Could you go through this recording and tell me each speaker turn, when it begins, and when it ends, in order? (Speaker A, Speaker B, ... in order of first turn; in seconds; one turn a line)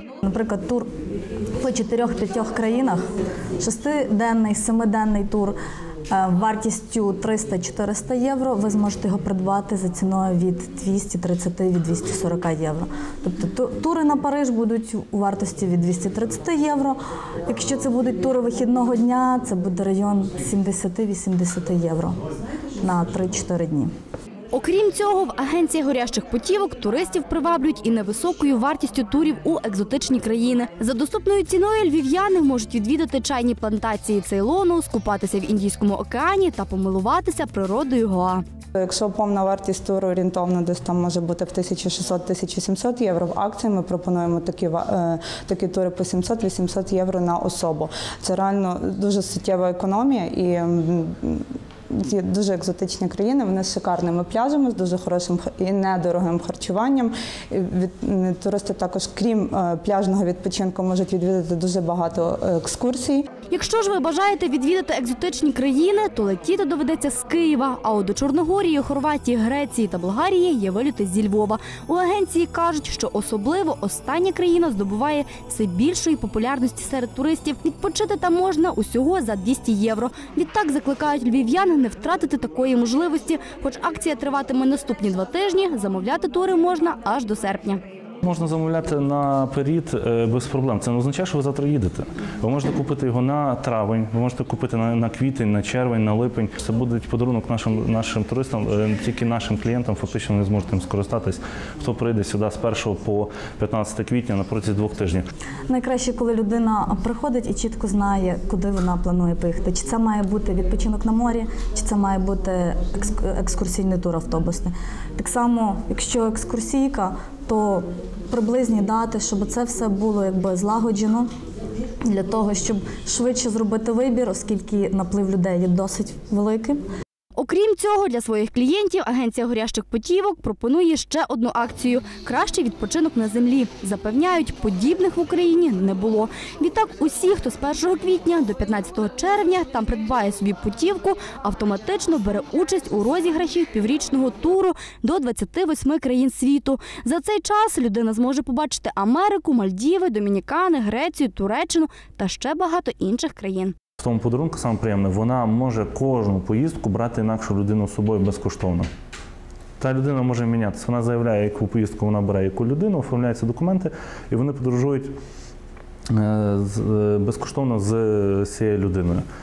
Speaker A: 0.2-0.8
Speaker A: 1.6-3.0
Speaker A: 3.6-5.5
Speaker A: 6.1-22.1
Speaker A: 22.8-23.9
Speaker B: 24.5-38.4
Speaker C: 38.8-63.2
Speaker B: 63.5-87.8
Speaker D: 88.2-105.2
Speaker A: 105.7-121.3
Speaker A: 122.1-126.8
Speaker B: 127.3-153.7
Speaker D: 154.0-158.9
Speaker D: 159.8-165.1
Speaker D: 166.1-169.2